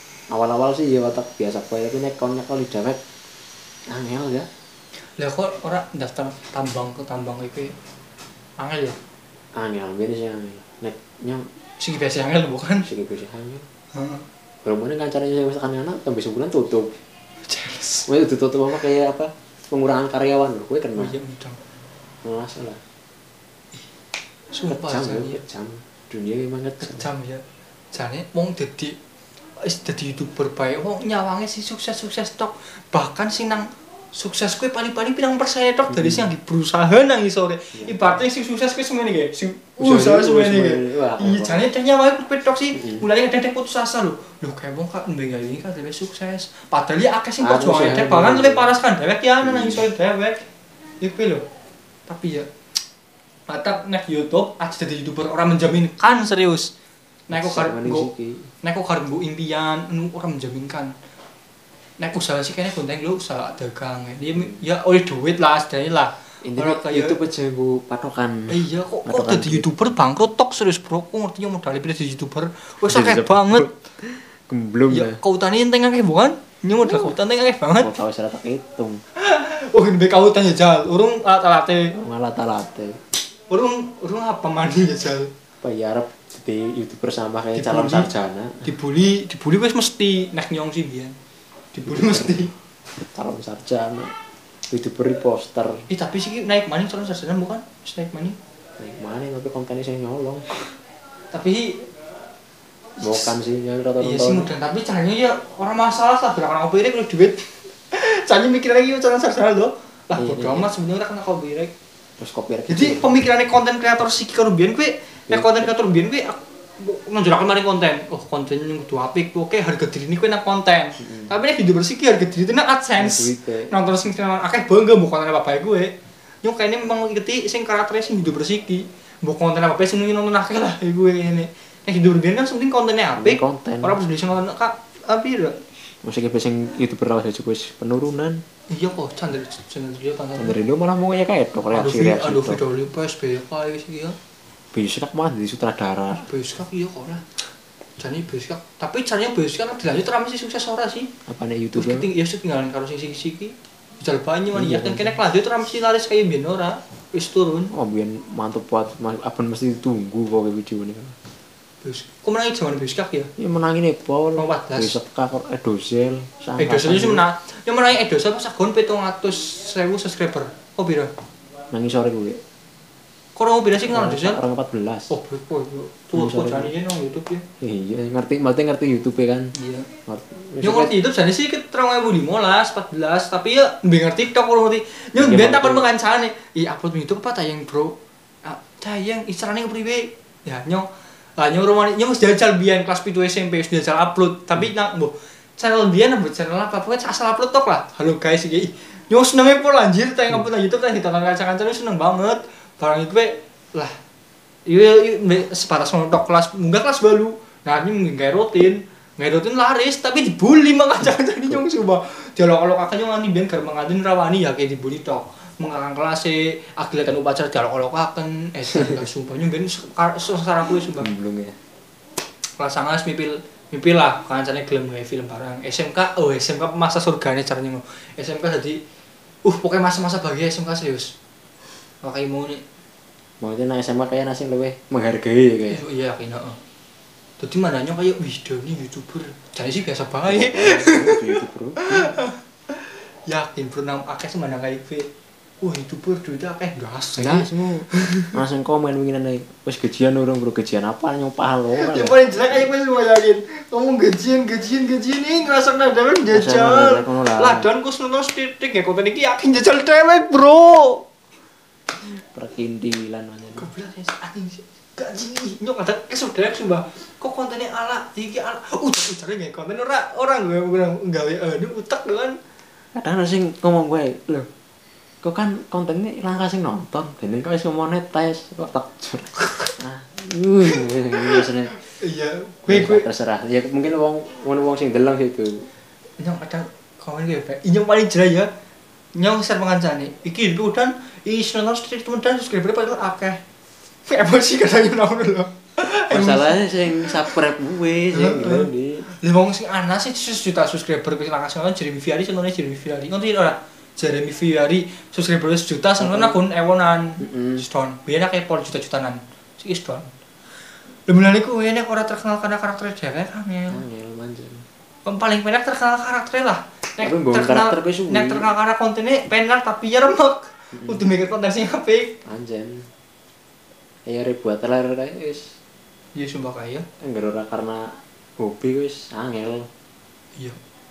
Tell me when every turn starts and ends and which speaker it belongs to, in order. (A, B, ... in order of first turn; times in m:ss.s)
0:00.3-0:03.0 A
0:03.9-0:04.5 A
0:05.2-0:07.8 B
0:08.6-0:09.0 B
0:09.6-0:11.4 A
0:11.8-0:12.9 B
0:12.8-0:13.7 A
0:13.9-0:14.2 B
0:14.6-0:17.0 A
0:17.4-0:18.1 B
0:18.1-0:21.1 A
0:21.0-0:21.6 B
0:22.2-0:22.8 A
0:24.5-0:25.4 B
0:24.7-0:27.1 A
0:26.8-0:29.0 B
0:29.6-0:50.4 B
0:35.9-0:36.3 A
0:37.8-0:38.2 A
0:39.8-0:41.6 A
0:42.7-0:43.1 A
0:47.4-0:48.7 A
0:49.4-0:49.9 A
0:51.0-0:51.4 B
0:52.1-0:52.4 B
0:53.5-0:56.7 B
0:57.3-0:58.1 B
0:57.3-0:58.5 A
0:58.6-1:00.9 B
1:02.0-1:07.2 B
1:06.4-1:09.7 A
1:08.5-1:13.7 B
1:12.8-1:15.2 A
1:14.9-1:17.9 B
1:16.8-1:17.1 A
1:17.8-1:19.0 A
1:19.2-1:21.9 B
1:21.9-1:23.0 A
1:23.5-1:25.3 B
1:25.6-1:28.8 A
1:27.6-1:28.1 B
1:28.6-1:31.1 B
1:31.7-1:32.5 B
1:31.9-1:34.1 A
1:34.7-1:35.8 A
1:35.9-1:38.4 B
1:38.8-1:40.8 A
1:41.3-1:41.8 B
1:43.0-1:43.3 B
1:43.0-1:44.5 A
1:44.0-1:51.7 B
1:50.2-1:50.7 A
1:52.2-1:53.1 A
1:52.7-2:15.6 B
1:55.3-1:55.7 A
2:01.0-2:01.3 A
2:03.0-2:03.8 A
2:13.1-2:14.0 A
2:16.0-2:18.4 A
2:18.7-2:20.6 B
2:20.4-2:22.6 A
2:21.7-2:24.2 B
2:24.7-2:26.3 A
2:26.2-2:27.3 B
2:28.0-2:31.1 B
2:31.2-2:32.1 A
2:31.7-2:37.7 B
2:34.5-2:35.2 A
2:37.7-2:41.1 A
2:41.8-2:43.3 B
2:43.4-2:47.2 A
2:44.3-2:45.0 B
2:46.6-2:51.1 B
2:51.7-2:52.4 A
2:53.4-2:54.4 B
2:53.9-2:55.1 A
2:55.1-2:57.4 B
2:56.1-2:56.7 A
2:57.6-2:59.5 A
2:59.6-2:59.9 B
3:00.1-3:01.0 A
3:00.6-3:23.9 B
3:05.2-3:05.9 A
3:24.6-3:41.1 B
3:31.0-3:31.6 A
3:38.6-3:39.1 A
3:40.8-3:41.6 A
3:42.6-3:48.8 B
3:49.4-3:51.1 B
3:52.0-3:52.6 B
3:53.4-3:55.8 A
3:55.7-3:56.6 B
3:57.4-4:05.1 B
4:00.2-4:02.2 A
4:05.6-4:08.3 B
4:07.2-4:12.6 A
4:11.8-4:21.0 B
4:16.3-4:17.7 A
4:22.0-4:23.7 A
4:23.6-4:32.4 B
4:32.9-4:34.5 A
4:35.2-4:41.8 A
4:41.2-4:43.1 B
4:42.7-4:45.7 A
4:46.2-4:48.5 B
4:49.1-4:53.4 B
4:54.1-4:57.3 B
4:56.1-4:59.1 A
4:58.1-5:10.1 B
5:06.0-5:06.4 A
5:07.2-5:07.6 A
5:11.1-5:13.8 B
5:13.7-5:14.6 A
5:15.0-5:22.1 B
5:17.0-5:18.5 A
5:20.7-5:21.0 A
5:22.2-5:22.9 A
5:24.0-5:25.5 A
5:26.1-5:26.9 B
5:27.0-5:29.7 A